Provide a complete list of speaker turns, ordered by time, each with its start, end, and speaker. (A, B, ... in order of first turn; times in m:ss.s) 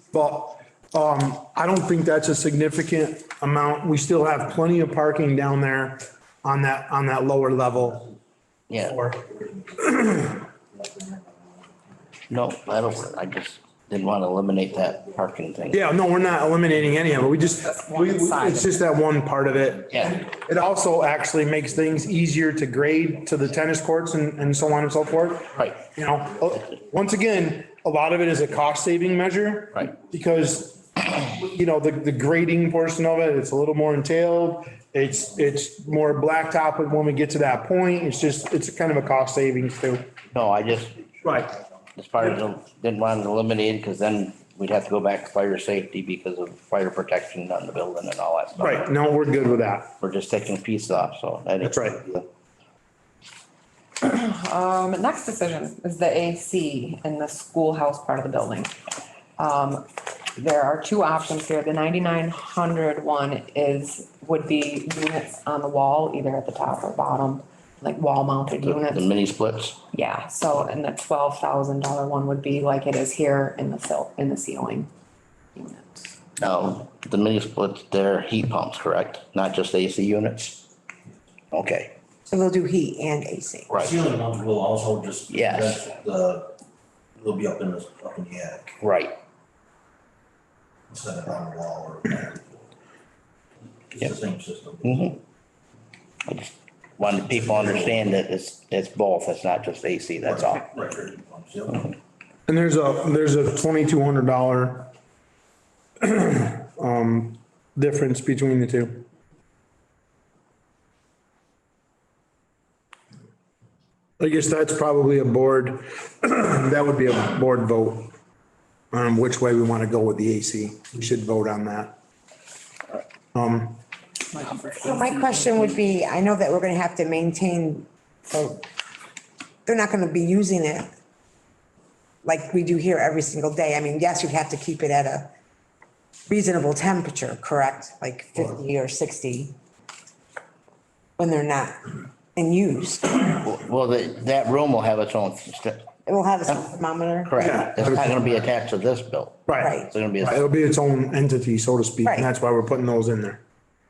0:00.1-0:08.1 A
0:08.7-0:09.0 B
0:08.8-0:12.0 C
0:09.8-0:10.4 A
0:12.3-0:15.8 B
0:15.7-0:40.2 A
0:17.6-0:18.8 D
0:19.9-0:20.2 B
0:40.3-0:41.0 B
0:41.2-0:41.6 A
0:42.0-0:48.9 B
0:48.6-0:49.9 A
0:50.0-0:52.3 B
0:51.6-0:52.0 A
0:54.0-0:58.7 D
0:59.4-1:09.1 D
1:08.5-1:09.8 B
1:09.9-1:14.9 D
1:15.6-1:16.2 D
1:16.4-1:20.7 B
1:21.5-1:21.9 B
1:22.3-1:23.8 E
1:23.7-1:23.9 B
1:23.7-1:26.6 C
1:25.3-1:25.9 B
1:27.2-1:28.8 C
1:28.8-1:29.2 B
1:30.9-1:32.7 C
1:33.9-1:35.1 C
1:34.8-1:35.2 B
1:36.3-1:40.6 B
1:37.2-1:38.2 C
1:40.2-1:41.9 C
1:42.5-1:44.9 A
1:46.0-1:49.1 A
1:54.2-1:58.1 A
1:58.9-2:02.0 A
2:03.3-2:03.8 A
2:04.3-2:05.7 D
2:04.7-2:08.6 E
2:09.7-2:10.9 E
2:12.2-2:15.3 E
2:16.3-2:19.5 E
2:21.2-2:23.4 E
2:23.4-2:25.9 B
2:26.1-2:27.6 E
2:27.3-2:30.4 B
2:27.4-2:28.1 A
2:29.5-2:33.4 A
2:29.6-2:29.9 E
2:32.0-2:32.3 E